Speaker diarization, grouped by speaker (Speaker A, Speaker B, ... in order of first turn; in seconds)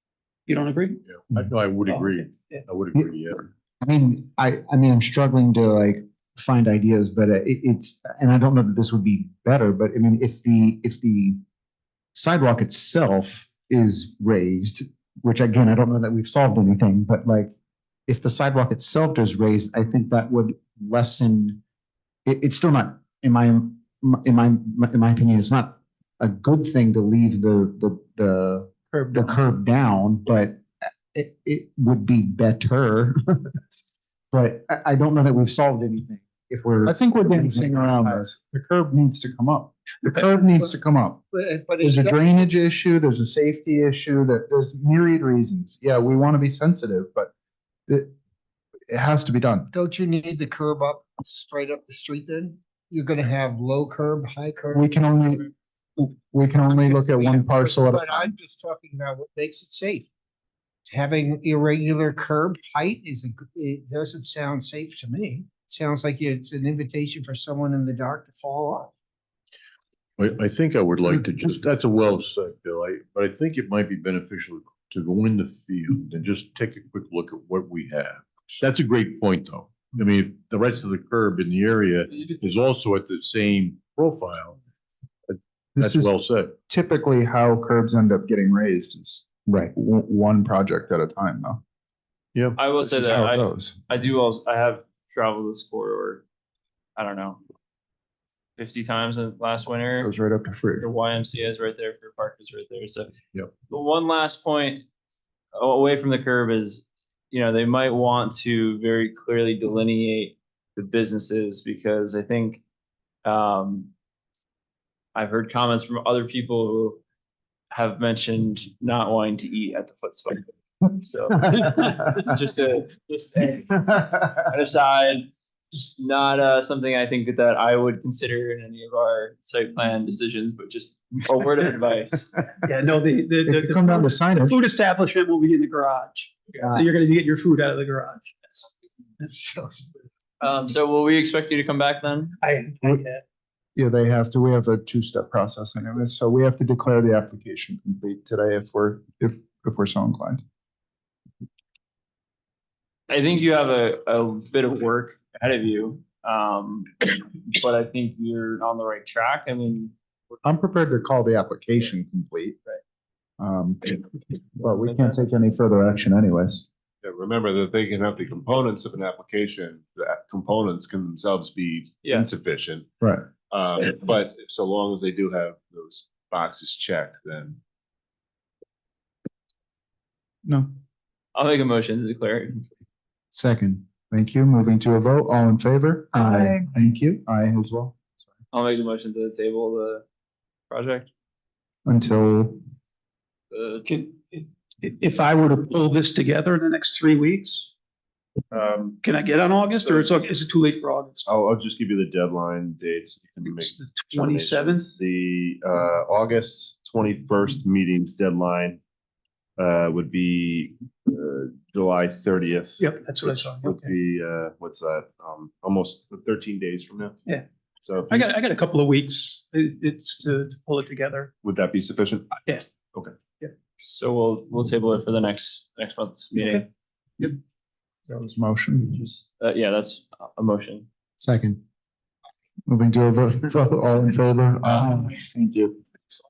Speaker A: 0.5-1.0, 1.8-2.6, 132.6-138.7, 142.4-143.2, 193.8-197.7, 199.0-201.3, 203.5-205.0, 212.8-213.9, 218.1-221.3, 226.3-226.6
Speaker B: 1.1-3.4, 70.2-84.6, 85.3-86.5
Speaker C: 3.8-11.4, 12.1-17.5, 18.1-21.6, 22.2-33.5, 34.3-38.2, 89.5-89.7, 186.2-186.5, 231.2-231.6
Speaker D: 36.9-41.2, 41.8-47.3, 47.9-48.1, 48.9-49.7, 54.7-58.3, 85.8-91.6, 92.7-93.7, 100.0-100.8, 133.4-134.6, 143.8-150.4, 160.4-162.6, 163.4-164.0, 164.6-166.6, 173.0-173.2, 180.4-180.7, 183.3-188.0, 191.8-192.6, 228.1-229.0, 232.7-235.8
Speaker E: 41.3-42.2, 49.7-54.9, 56.6-60.1, 60.9-68.9, 139.2-139.9
Speaker F: 92.5-96.2, 97.0-97.4, 98.6-100.1, 100.8-103.1, 103.7-104.8, 105.5-112.6, 113.2-113.9, 115.1-117.0, 117.7-125.3, 126.0-132.4, 140.4-142.3, 153.1-159.9, 164.8-165.2, 181.3-182.7, 188.5-190.0, 190.7-191.1, 193.5-193.8, 223.8-226.7, 228.9-230.9
Speaker G: 167.0-172.9, 173.5-177.6, 198.5-199.0, 199.8-200.1, 201.3-208.8, 209.6-217.2, 217.8-218.4, 221.4-222.4